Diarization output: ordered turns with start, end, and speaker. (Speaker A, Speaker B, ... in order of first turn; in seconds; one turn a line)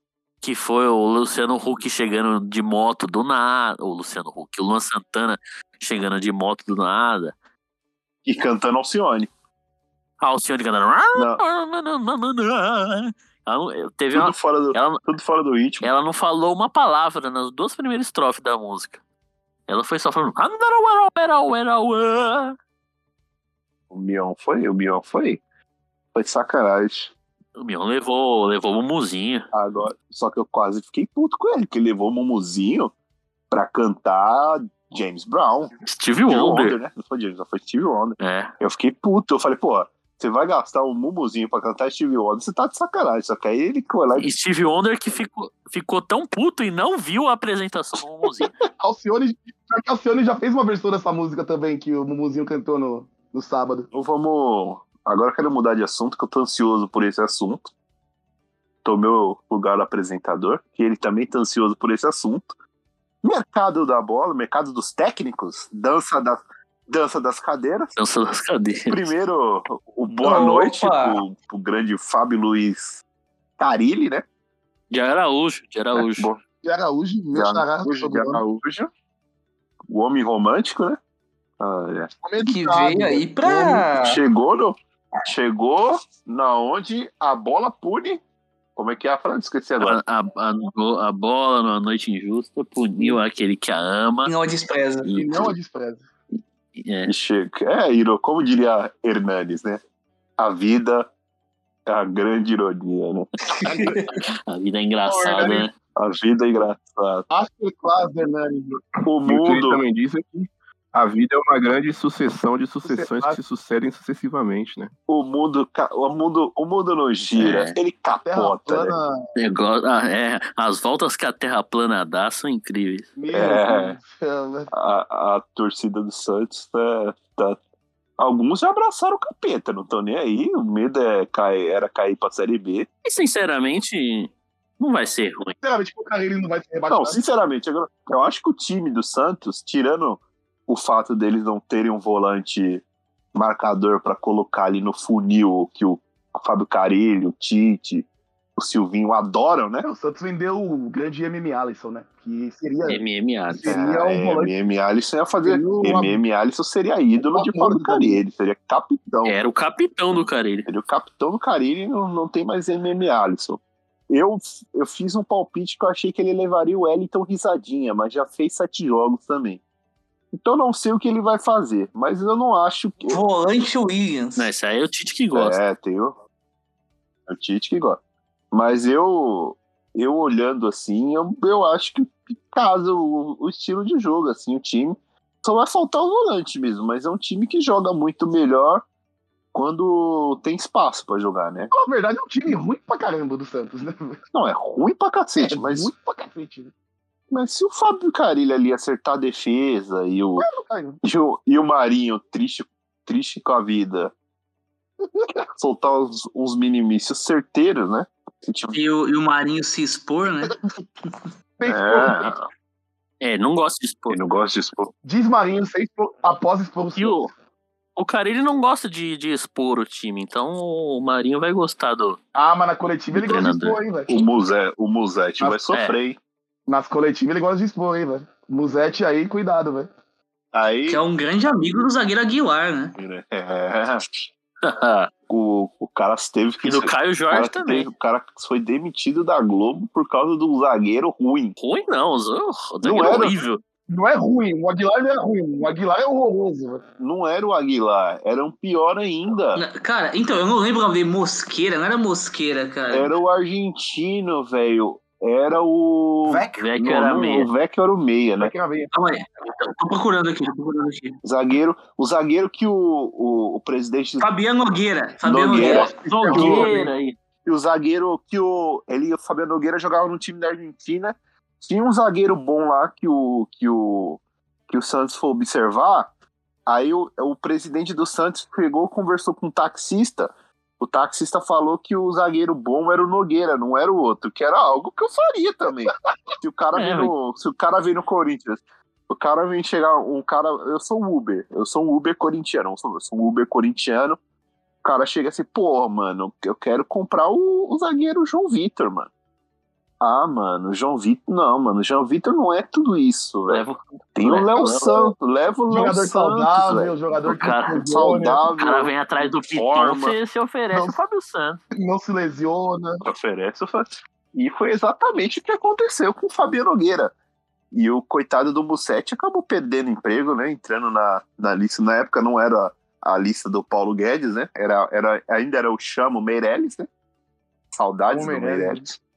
Speaker A: 0.4-7.3
Speaker B: 8.2-9.3
Speaker A: 10.2-15.0
Speaker B: 11.1-11.4
Speaker B: 14.1-15.9
Speaker A: 15.8-19.0
Speaker A: 19.7-22.6
Speaker B: 23.9-25.4
Speaker B: 26.1-27.1
Speaker A: 27.6-29.4
Speaker B: 29.5-32.9
Speaker B: 33.5-35.7
Speaker A: 35.8-36.8
Speaker B: 36.3-44.3
Speaker A: 38.2-38.5
Speaker A: 44.2-48.5
Speaker C: 48.8-53.9
Speaker B: 53.9-57.7
Speaker B: 58.8-62.5
Speaker B: 63.2-67.9
Speaker A: 68.0-69.0
Speaker B: 68.9-73.0
Speaker D: 70.2-71.2
Speaker B: 73.6-74.2
Speaker A: 74.9-76.3
Speaker B: 75.9-76.4
Speaker C: 76.6-78.4
Speaker B: 77.3-78.9
Speaker B: 79.9-81.0
Speaker B: 81.6-82.1
Speaker C: 82.2-83.7
Speaker D: 82.4-84.2
Speaker B: 83.9-88.2
Speaker B: 88.8-90.0
Speaker A: 89.8-94.3
Speaker D: 94.2-95.1
Speaker C: 95.1-96.0
Speaker A: 96.8-97.1
Speaker B: 97.1-99.8
Speaker B: 100.4-101.1
Speaker B: 101.9-103.9
Speaker D: 103.6-103.9
Speaker A: 104.5-105.7
Speaker C: 105.1-105.6
Speaker B: 105.5-107.3
Speaker C: 107.3-108.8
Speaker B: 109.1-109.8
Speaker E: 109.2-114.9
Speaker C: 112.9-113.4
Speaker B: 115.1-119.0
Speaker A: 117.4-117.8
Speaker C: 118.3-119.2
Speaker A: 119.4-123.1
Speaker C: 123.2-124.7
Speaker B: 123.3-124.0
Speaker B: 124.7-127.6
Speaker B: 128.2-132.9
Speaker A: 133.1-135.6
Speaker C: 135.6-137.2
Speaker B: 136.9-142.8
Speaker B: 143.3-148.1
Speaker B: 148.6-149.9
Speaker C: 149.8-154.5
Speaker A: 152.9-153.7
Speaker B: 153.7-159.4
Speaker C: 155.4-156.2
Speaker C: 157.2-158.2
Speaker A: 159.2-160.7
Speaker B: 160.7-169.6
Speaker B: 170.3-173.2
Speaker D: 173.1-174.5
Speaker A: 174.4-175.6
Speaker B: 175.3-176.2
Speaker B: 177.3-178.0
Speaker B: 178.5-188.8
Speaker B: 189.5-191.7
Speaker C: 191.7-194.2
Speaker B: 194.3-195.9
Speaker C: 195.4-196.7
Speaker B: 197.3-200.5
Speaker C: 200.4-201.0
Speaker B: 201.0-204.1
Speaker B: 205.6-208.8
Speaker D: 208.7-210.5
Speaker C: 210.4-210.8
Speaker C: 211.6-212.3
Speaker B: 211.7-212.3
Speaker A: 213.2-214.2
Speaker B: 214.1-214.9
Speaker C: 215.0-217.3
Speaker A: 217.0-217.3
Speaker A: 218.0-222.2
Speaker C: 222.3-224.3
Speaker A: 223.1-223.8
Speaker B: 224.1-226.2
Speaker C: 226.7-229.9
Speaker B: 230.5-231.0
Speaker D: 230.9-233.0
Speaker B: 233.0-234.1
Speaker A: 234.6-235.1
Speaker B: 235.3-241.6
Speaker A: 236.6-237.9
Speaker A: 241.6-243.6
Speaker B: 242.8-243.3
Speaker C: 243.9-246.8
Speaker B: 247.0-249.6
Speaker D: 249.6-253.1
Speaker B: 252.9-258.5
Speaker A: 256.6-257.5
Speaker C: 258.4-258.9
Speaker D: 258.9-261.2
Speaker B: 261.2-264.3
Speaker D: 264.2-266.6
Speaker B: 265.2-266.7
Speaker C: 265.6-266.9
Speaker A: 265.7-267.2
Speaker B: 267.4-276.1
Speaker B: 276.7-294.2
Speaker A: 286.8-287.1
Speaker B: 294.8-299.1
Speaker B: 300.0-303.6
Speaker A: 303.5-305.1
Speaker B: 304.2-306.9
Speaker C: 305.7-308.5
Speaker A: 307.3-307.8
Speaker B: 307.8-308.9
Speaker A: 308.6-311.6
Speaker B: 309.5-310.2
Speaker C: 311.8-313.0
Speaker B: 313.0-317.1
Speaker B: 317.7-326.9
Speaker B: 327.7-329.0
Speaker C: 328.1-328.8